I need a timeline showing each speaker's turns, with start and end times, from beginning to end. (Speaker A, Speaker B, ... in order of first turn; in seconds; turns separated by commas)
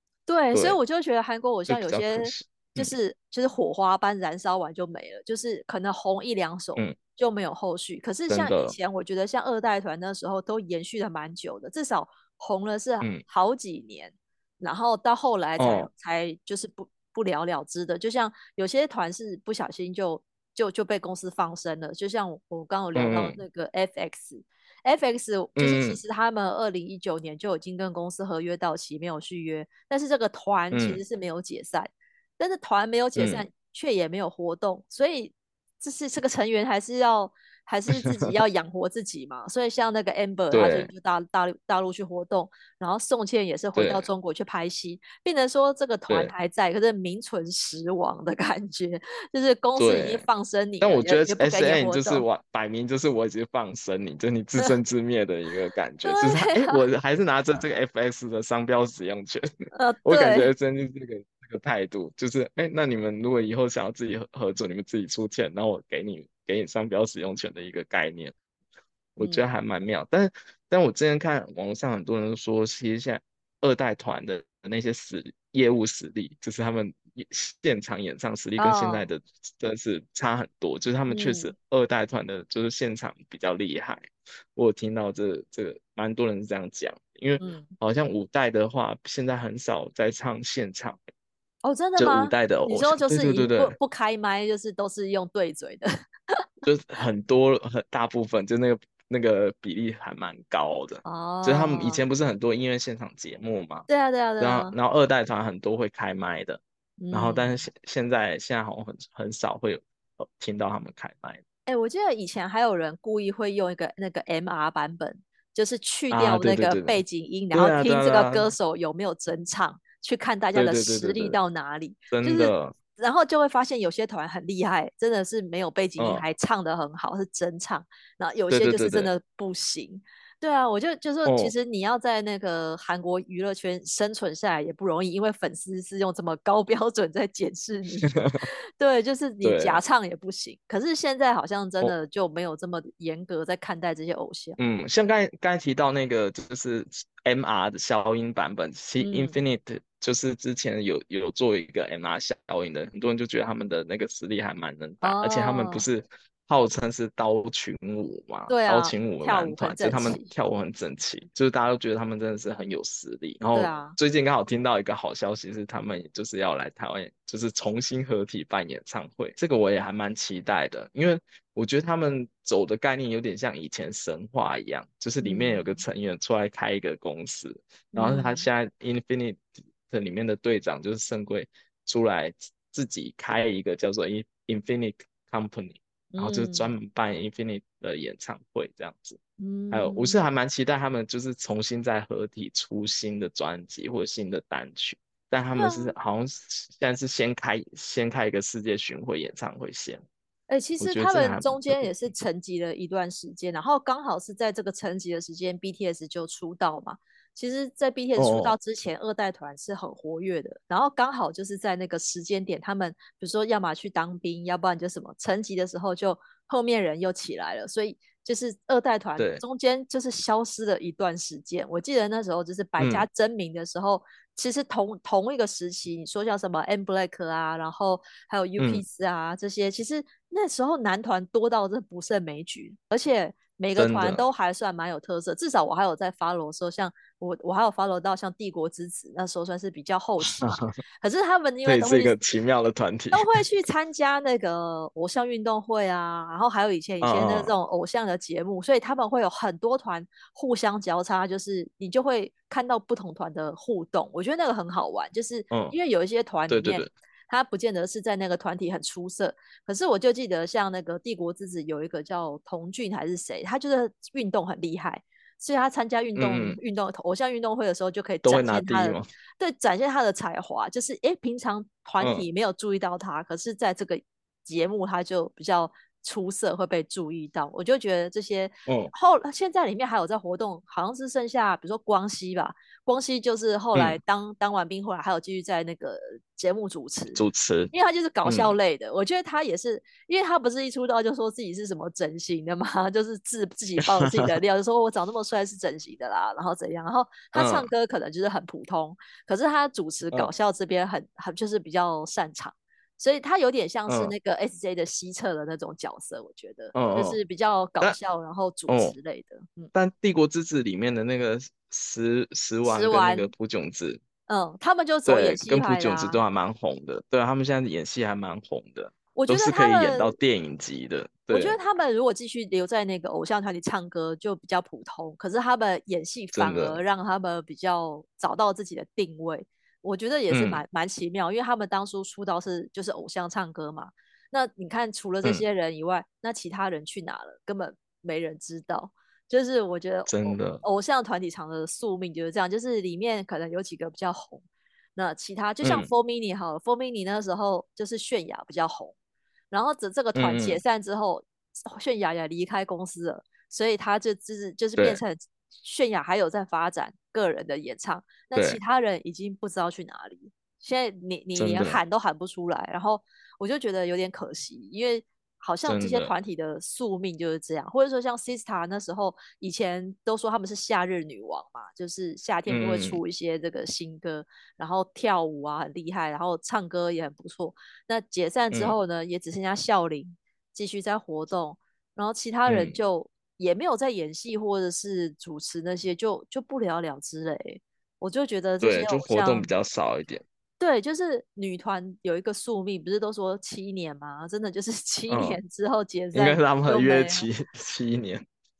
Speaker A: 0.3-52.2, Speaker B: 0.5-0.8, Speaker B: 1.7-3.0, Speaker B: 8.3-8.8, Speaker B: 15.6-15.9, Speaker B: 22.9-23.4, Speaker B: 25.6-26.0, Speaker B: 30.7-31.0, Speaker B: 33.1-33.4, Speaker B: 40.5-40.9, Speaker B: 43.7-44.1, Speaker B: 49.8-50.2, Speaker B: 50.8-59.5, Speaker A: 56.0-56.8, Speaker A: 59.7-60.5, Speaker B: 60.0-68.3, Speaker B: 69.2-91.0, Speaker A: 69.2-69.4, Speaker A: 78.6-79.1, Speaker A: 81.1-81.5, Speaker A: 87.4-87.7, Speaker A: 91.6-95.9, Speaker B: 92.0-93.7, Speaker B: 96.6-103.9, Speaker A: 101.0-102.0, Speaker A: 103.9-104.7, Speaker B: 104.4-111.4, Speaker A: 107.0-107.6, Speaker A: 111.7-144.6, Speaker B: 116.1-117.0, Speaker B: 117.5-118.5, Speaker B: 120.5-121.4, Speaker B: 122.1-122.7, Speaker B: 126.0-126.2, Speaker B: 128.5-129.1, Speaker B: 131.2-131.5, Speaker B: 138.0-138.4, Speaker B: 139.4-139.8, Speaker B: 144.6-189.2, Speaker A: 149.0-149.4, Speaker A: 155.0-155.8, Speaker A: 158.5-160.3, Speaker A: 163.5-164.0, Speaker A: 175.2-175.8, Speaker A: 177.9-178.4, Speaker A: 186.1-186.7, Speaker A: 189.4-190.2, Speaker B: 189.7-200.0, Speaker A: 195.5-195.9, Speaker A: 200.5-240.4, Speaker B: 200.8-201.9, Speaker B: 208.2-208.6, Speaker B: 219.2-219.4, Speaker B: 222.8-223.1, Speaker B: 228.6-228.8, Speaker B: 233.7-234.2, Speaker B: 240.4-240.7, Speaker A: 241.0-242.2, Speaker B: 241.6-243.3, Speaker A: 243.1-309.7, Speaker B: 247.0-247.5, Speaker B: 256.5-256.9, Speaker B: 266.1-266.6, Speaker B: 268.2-269.1, Speaker B: 272.0-272.2, Speaker B: 278.6-278.9, Speaker B: 283.7-284.0, Speaker B: 287.1-287.7, Speaker B: 288.2-288.5, Speaker B: 293.8-294.2, Speaker B: 297.3-297.7, Speaker B: 303.9-304.1, Speaker B: 306.7-307.2, Speaker B: 308.7-308.9, Speaker B: 309.7-314.0, Speaker A: 312.6-313.3, Speaker A: 314.3-316.2, Speaker B: 315.1-321.6, Speaker A: 319.1-320.1, Speaker A: 321.3-344.4, Speaker B: 326.3-326.8, Speaker B: 330.3-330.6, Speaker B: 340.1-340.6, Speaker A: 344.9-348.9, Speaker B: 345.6-345.9, Speaker A: 349.5-389.5, Speaker B: 350.1-350.6, Speaker B: 358.3-358.6, Speaker B: 361.4-361.8, Speaker B: 365.6-366.1, Speaker B: 372.5-373.0, Speaker B: 382.5-382.8, Speaker B: 388.6-390.2, Speaker A: 390.6-397.3, Speaker B: 395.1-395.4, Speaker B: 396.1-398.2